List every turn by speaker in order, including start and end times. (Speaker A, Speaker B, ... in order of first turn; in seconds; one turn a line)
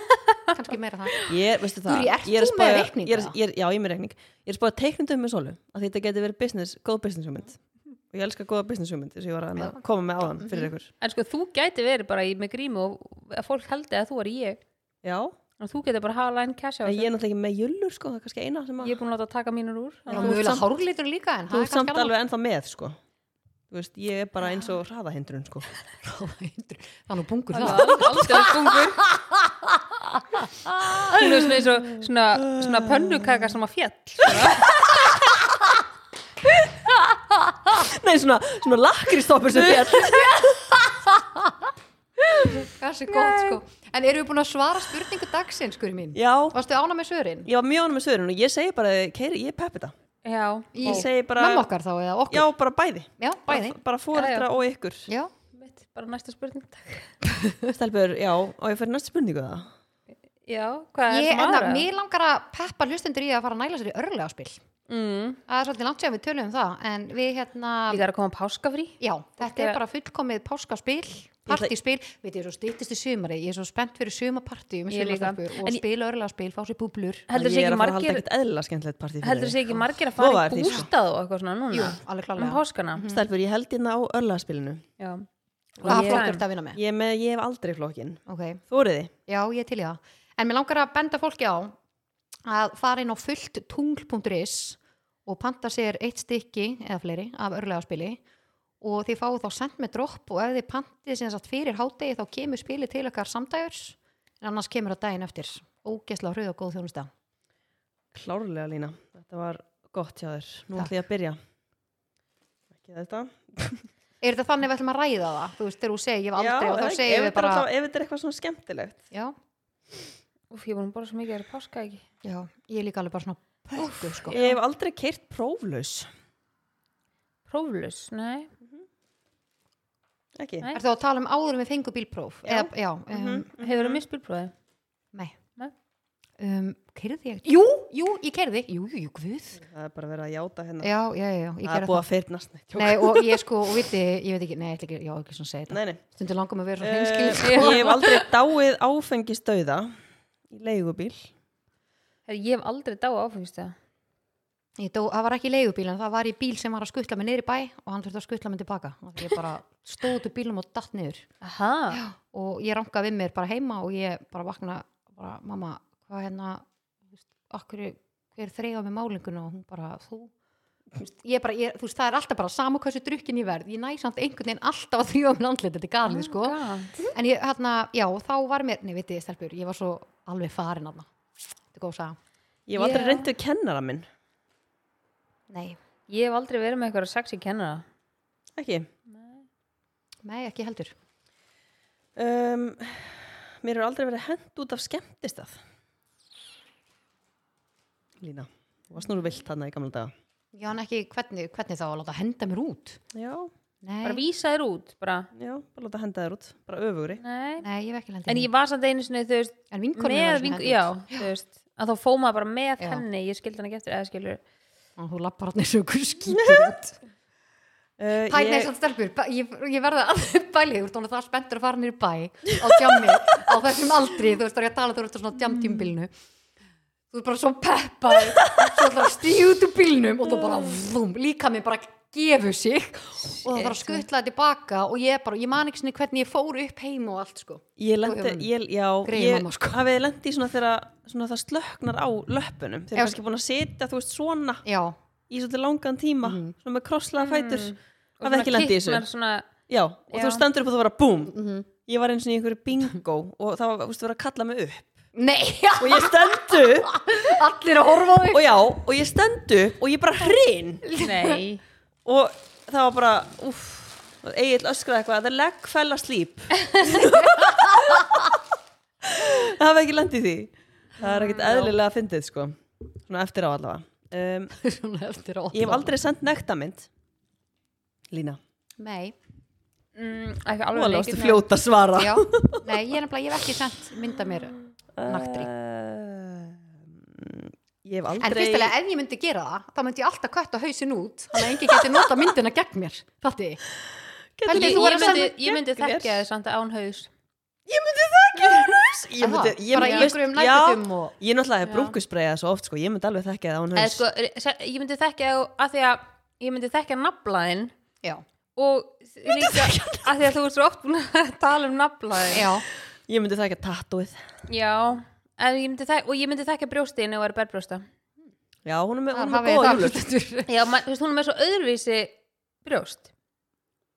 Speaker A: 0.5-1.2
Speaker B: 1.3-10.9
Speaker A: 1.8-3.3
Speaker A: 10.4-10.7
Speaker C: 11.0-14.6
Speaker B: 15.0-15.3
Speaker C: 15.6-17.1
Speaker B: 16.8-19.0
Speaker C: 18.8-20.6
Speaker A: 20.1-22.1
Speaker B: 20.1-20.6
Speaker B: 21.5-22.9
Speaker B: 23.7-25.7
Speaker A: 26.0-31.1
Speaker C: 27.5-29.0
Speaker B: 27.6-27.9
Speaker C: 31.1-34.7
Speaker B: 31.1-33.5
Speaker B: 34.3-35.4
Speaker B: 36.6-37.0
Speaker B: 37.6-40.7
Speaker A: 39.6-41.7
Speaker B: 42.2-43.6
Speaker A: 42.4-47.5
Speaker B: 46.1-46.6
Speaker B: 47.5-49.9
Speaker C: 50.2-51.0
Speaker A: 50.7-52.5
Speaker B: 50.8-51.7
Speaker B: 52.3-55.1
Speaker A: 53.2-53.8
Speaker C: 54.1-54.5
Speaker C: 55.5-57.1
Speaker B: 57.7-59.7
Speaker C: 60.5-61.9
Speaker A: 61.1-64.6
Speaker C: 64.9-65.4
Speaker A: 65.5-68.0
Speaker C: 67.9-69.8
Speaker A: 69.0-77.3
Speaker B: 71.5-71.7
Speaker C: 74.9-75.4
Speaker C: 77.3-78.2
Speaker B: 77.3-80.9
Speaker C: 79.2-83.0
Speaker A: 81.7-83.2
Speaker B: 83.1-84.8
Speaker C: 85.0-85.2
Speaker C: 85.8-86.4
Speaker A: 85.8-86.8
Speaker B: 85.8-89.1
Speaker A: 88.3-88.6
Speaker A: 89.3-91.7
Speaker A: 92.5-98.2
Speaker A: 98.8-107.1
Speaker B: 108.1-111.4
Speaker B: 112.8-113.9
Speaker A: 114.2-117.6
Speaker B: 116.3-119.0
Speaker C: 120.5-122.0
Speaker A: 122.2-124.4
Speaker B: 124.3-126.1
Speaker C: 124.3-124.6
Speaker C: 127.5-128.5
Speaker B: 130.3-130.7
Speaker A: 130.7-133.5
Speaker B: 132.4-134.0
Speaker C: 133.6-134.5
Speaker A: 136.4-139.6
Speaker B: 139.6-140.9
Speaker A: 140.8-142.0
Speaker B: 141.6-143.4
Speaker A: 142.7-148.0
Speaker B: 145.7-146.0
Speaker B: 146.8-149.9
Speaker C: 147.4-148.2
Speaker B: 150.5-151.3
Speaker C: 152.3-153.7
Speaker A: 154.8-161.3
Speaker C: 161.4-162.0
Speaker A: 161.9-166.6
Speaker A: 167.2-170.3
Speaker A: 170.9-181.1
Speaker C: 176.1-176.9
Speaker A: 181.7-182.2
Speaker B: 182.7-184.1
Speaker C: 182.8-183.3
Speaker A: 185.5-185.8
Speaker C: 186.1-187.8
Speaker B: 188.6-188.9
Speaker A: 190.2-190.9
Speaker B: 192.1-195.6
Speaker B: 198.2-200.1
Speaker A: 200.5-203.0
Speaker B: 203.1-203.5
Speaker A: 203.8-204.2
Speaker C: 204.0-205.3
Speaker B: 205.3-207.2
Speaker C: 207.2-207.7
Speaker A: 207.6-208.5
Speaker C: 208.3-214.4
Speaker A: 209.7-211.3
Speaker A: 215.0-216.9
Speaker B: 216.3-216.8
Speaker B: 218.0-218.7
Speaker A: 218.3-226.1
Speaker A: 227.1-238.5
Speaker C: 233.3-234.0
Speaker B: 237.8-244.6
Speaker A: 239.0-239.8
Speaker A: 244.6-244.9
Speaker B: 245.3-249.1
Speaker A: 246.2-246.5
Speaker C: 247.2-249.5
Speaker B: 249.7-251.3
Speaker C: 250.1-250.4
Speaker A: 251.3-251.7
Speaker B: 251.9-254.9
Speaker A: 255.1-258.5
Speaker B: 255.8-257.3
Speaker B: 258.3-260.9
Speaker A: 260.8-261.4
Speaker C: 261.0-261.6
Speaker B: 262.0-268.4
Speaker A: 267.1-268.1
Speaker B: 269.0-274.5
Speaker C: 271.0-271.7
Speaker A: 274.6-275.9
Speaker B: 275.5-276.9
Speaker B: 278.1-278.4
Speaker A: 278.8-279.1
Speaker C: 279.9-281.4
Speaker B: 280.7-282.9
Speaker A: 281.9-285.5
Speaker B: 284.9-288.7
Speaker A: 288.2-293.6
Speaker B: 291.4-292.2
Speaker B: 294.4-296.2
Speaker A: 294.4-295.3
Speaker C: 294.5-297.1
Speaker B: 297.7-304.0
Speaker A: 299.2-301.1
Speaker C: 299.8-300.1
Speaker C: 303.7-307.7
Speaker C: 308.6-312.5
Speaker B: 309.3-310.1
Speaker A: 312.3-312.6
Speaker B: 313.1-314.3
Speaker C: 314.5-317.9
Speaker B: 318.6-320.0
Speaker A: 319.1-320.5
Speaker C: 320.5-323.1